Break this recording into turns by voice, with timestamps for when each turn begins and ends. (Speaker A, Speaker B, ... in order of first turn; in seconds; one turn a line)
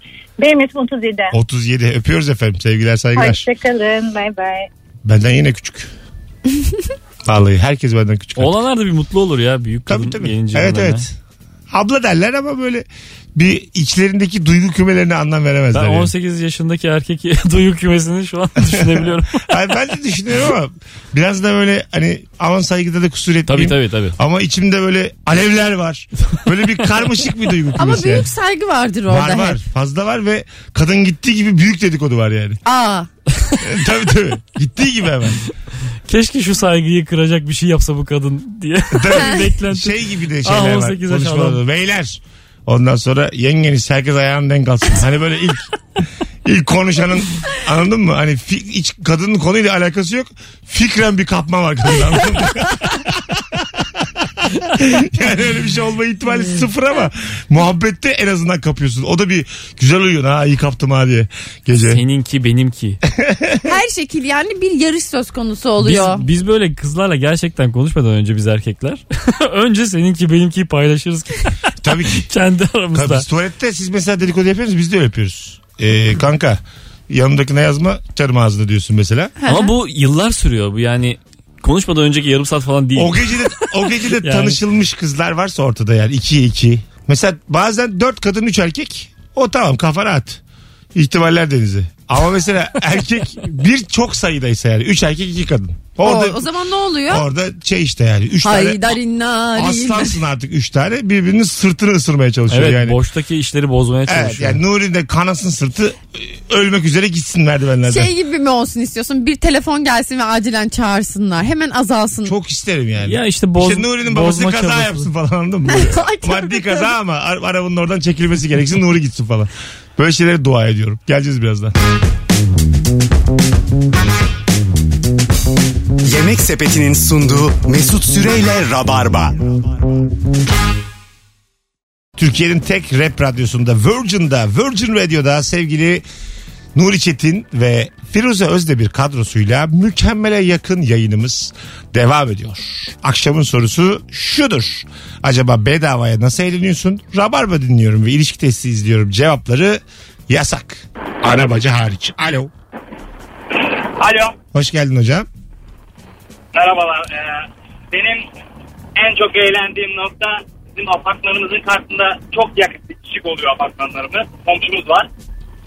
Speaker A: 0.4-1.3
Speaker B: 1.3-3.5
Speaker A: 3.2-4.7
Speaker B: 5.0-5.9
Speaker B: 7.2-8.6
Speaker C: 8.4-11.1
Speaker B: 9.9-11.2
Speaker B: 11.7-16.1
Speaker C: 15.7-19.6
Speaker B: 18.8-28.3
Speaker C: 23.5-24.2
Speaker D: 27.8-29.6
Speaker B: 29.1-32.6
Speaker D: 32.6-33.1
Speaker B: 33.6-35.4
Speaker C: 36.1-41.6
Speaker B: 38.9-45.7
Speaker B: 46.5-62.0
Speaker C: 61.8-63.0
Speaker B: 63.1-63.7
Speaker D: 63.6-66.2
Speaker C: 65.8-73.3
Speaker B: 71.8-72.3
Speaker B: 72.9-79.3
Speaker D: 79.4-79.7
Speaker C: 79.5-83.6
Speaker B: 83.0-90.4
Speaker C: 84.2-84.6
Speaker B: 91.0-96.5
Speaker D: 96.0-97.3
Speaker B: 97.1-99.0
Speaker D: 98.4-100.2
Speaker B: 99.5-103.0
Speaker C: 102.5-104.6
Speaker B: 104.1-108.1
Speaker D: 107.9-112.3
Speaker B: 112.2-121.8
Speaker C: 113.0-115.1
Speaker D: 115.7-116.9
Speaker E: 126.0-129.7
Speaker B: 132.2-136.1
Speaker B: 136.8-152.5
Speaker F: 153.8-154.4
Speaker B: 154.5-155.3
Speaker F: 156.5-158.3
Speaker F: 159.0-165.1